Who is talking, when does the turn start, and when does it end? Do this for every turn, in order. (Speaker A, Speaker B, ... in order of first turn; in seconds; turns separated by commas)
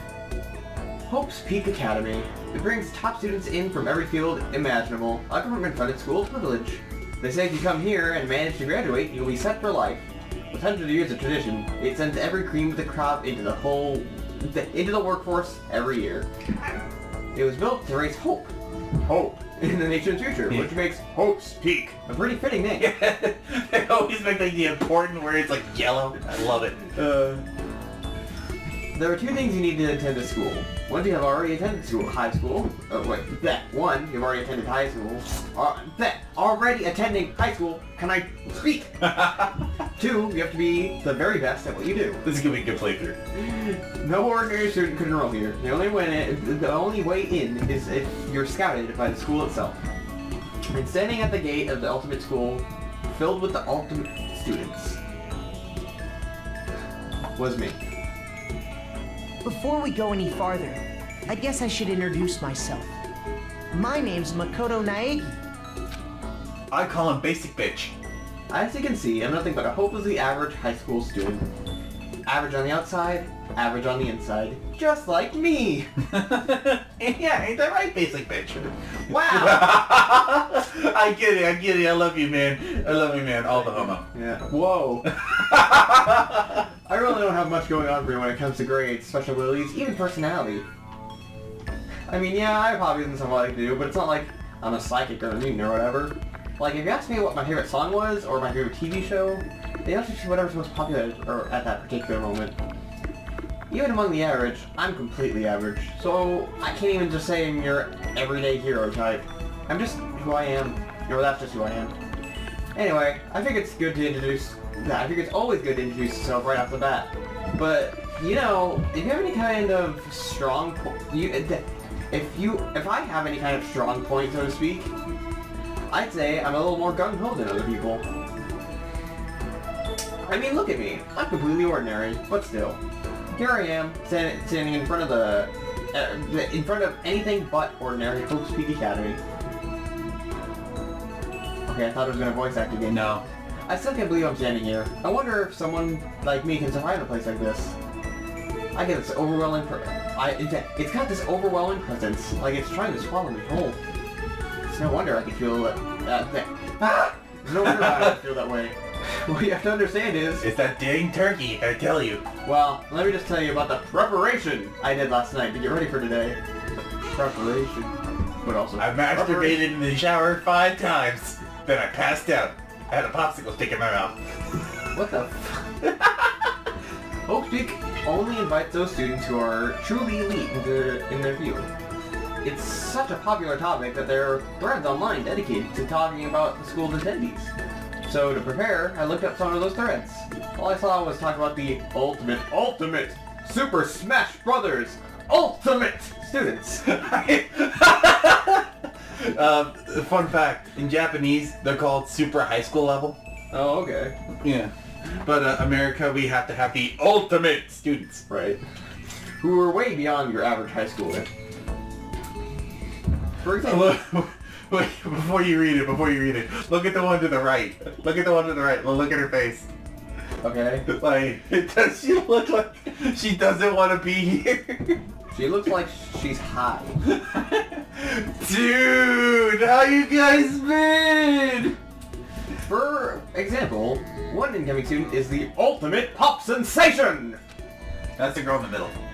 Speaker A: 1.1-16.3, Speaker A: 17.3-22.9, Speaker B: 22.8-26.8, Speaker A: 26.9-27.4, Speaker A: 28.9-39.2, Speaker B: 39.0-39.5, Speaker A: 40.0-42.2, Speaker B: 42.2-43.2, Speaker A: 43.3-49.8, Speaker A: 50.7-55.0, Speaker A: 57.4-57.8, Speaker C: 59.4-62.9, Speaker C: 63.7-65.4, Speaker B: 66.7-67.9, Speaker A: 68.5-71.5, Speaker A: 72.3-75.9, Speaker B: 76.1-84.1, Speaker A: 79.1-79.9, Speaker A: 84.0-85.1, Speaker B: 85.1-86.6, Speaker A: 86.9-90.7, Speaker A: 92.1-102.5, Speaker A: 103.7-111.9, Speaker A: 112.7-124.9, Speaker A: 125.9-128.0, Speaker A: 130.2-132.8, Speaker A: 133.4-139.2, Speaker A: 141.7-143.1, Speaker B: 142.9-143.2, Speaker A: 143.7-147.8, Speaker A: 148.7-153.8, Speaker A: 154.7-160.5, Speaker B: 156.8-158.2, Speaker B: 160.4-162.2, Speaker A: 162.4-166.4, Speaker A: 167.0-169.6, Speaker B: 168.8-174.2, Speaker A: 174.9-175.8, Speaker B: 175.8-176.2, Speaker A: 177.3-181.7, Speaker A: 182.4-187.5, Speaker A: 188.0-196.9, Speaker B: 196.8-203.2, Speaker A: 203.5-204.1, Speaker B: 204.4-208.2, Speaker A: 208.3-208.6, Speaker A: 209.4-211.3, Speaker A: 213.4-214.0, Speaker B: 213.6-219.7, Speaker A: 220.4-220.9, Speaker B: 220.9-225.0, Speaker A: 225.3-227.0, Speaker B: 227.0-231.8, Speaker A: 232.7-237.4, Speaker B: 238.2-239.0